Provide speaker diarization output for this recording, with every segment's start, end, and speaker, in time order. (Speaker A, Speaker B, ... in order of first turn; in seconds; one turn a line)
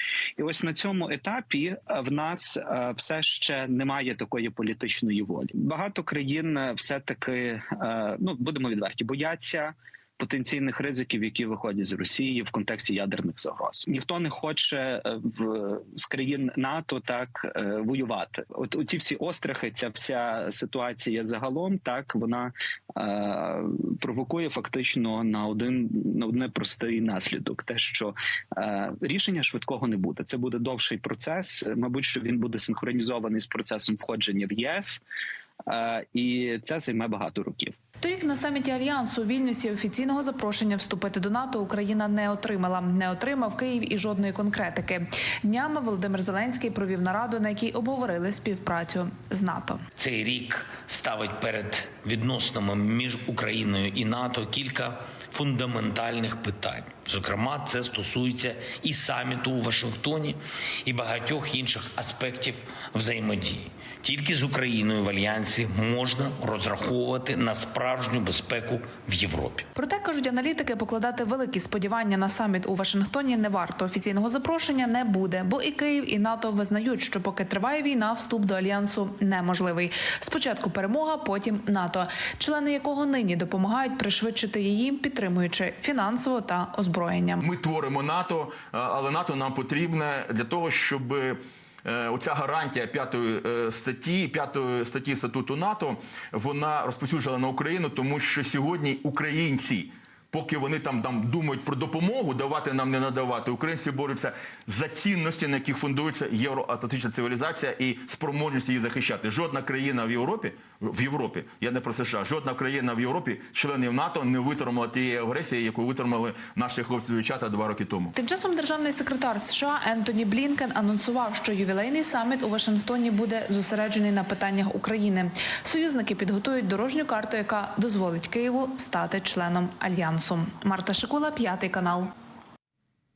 Speaker A: 0.4-35.0
Speaker A: 35.7-37.7
Speaker B: 38.0-49.8
Speaker C: 50.0-69.7
Speaker B: 69.8-87.4
Speaker D: 87.4-118.1
Speaker B: 118.1-132.1